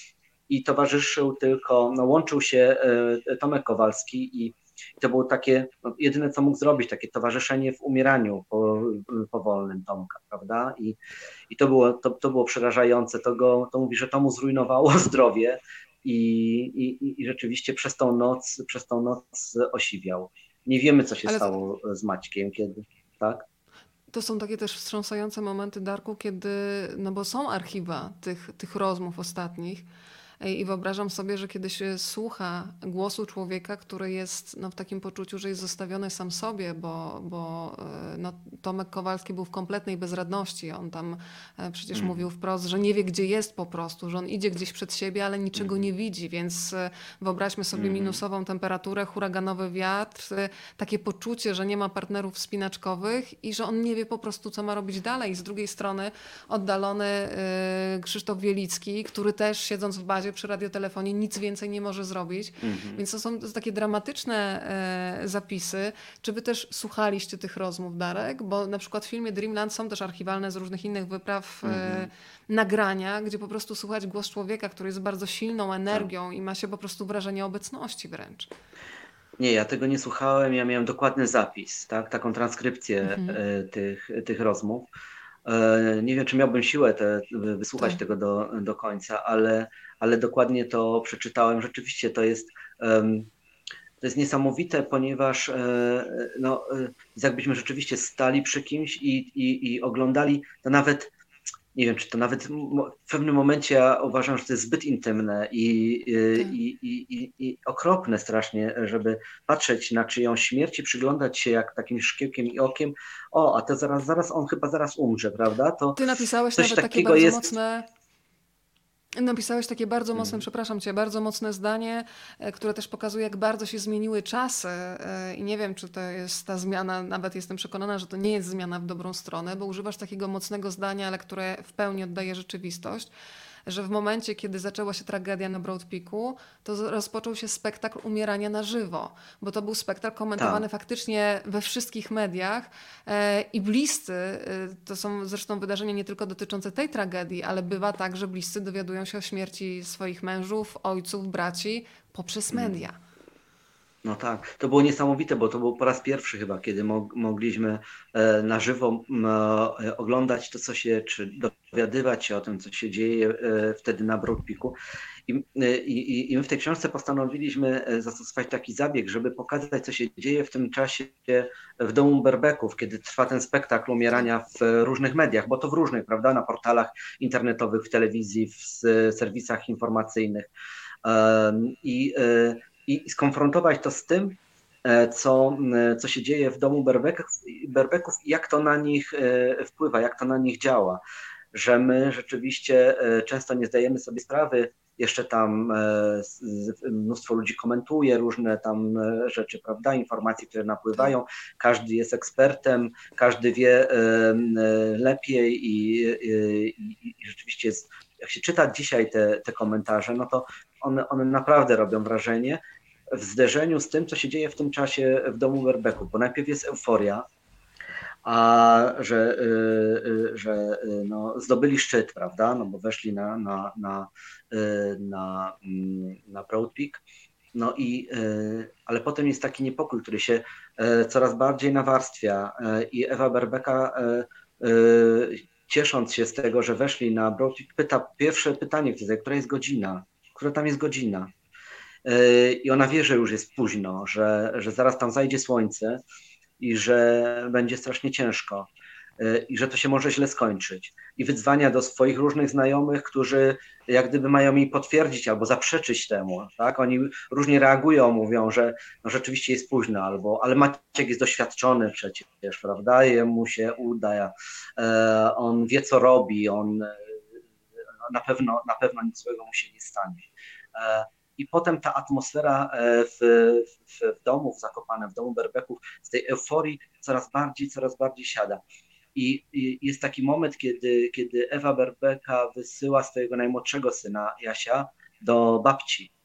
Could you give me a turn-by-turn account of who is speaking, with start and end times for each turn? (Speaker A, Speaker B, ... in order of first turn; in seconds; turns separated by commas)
Speaker A: 0.5-11.0, Speaker A: 11.5-23.4, Speaker B: 21.3-21.5, Speaker B: 24.1-29.8, Speaker B: 30.4-78.5, Speaker A: 41.9-42.2, Speaker A: 45.5-45.9, Speaker A: 47.7-48.2, Speaker A: 62.6-63.0, Speaker A: 71.6-72.1, Speaker A: 79.4-84.9, Speaker B: 83.1-83.4, Speaker A: 85.4-93.3, Speaker A: 94.0-101.1, Speaker A: 101.7-116.0, Speaker B: 116.0-117.8, Speaker A: 116.5-117.5, Speaker B: 119.2-133.1, Speaker A: 120.2-120.4, Speaker B: 133.7-153.0, Speaker A: 140.4-140.6, Speaker A: 152.5-152.8, Speaker A: 154.0-164.8, Speaker A: 165.3-180.5, Speaker A: 181.0-191.0, Speaker A: 191.5-212.6, Speaker A: 213.1-217.2, Speaker A: 218.2-227.0, Speaker A: 227.5-241.3, Speaker A: 242.0-246.0, Speaker A: 246.6-267.2, Speaker A: 268.0-278.6, Speaker A: 279.1-286.1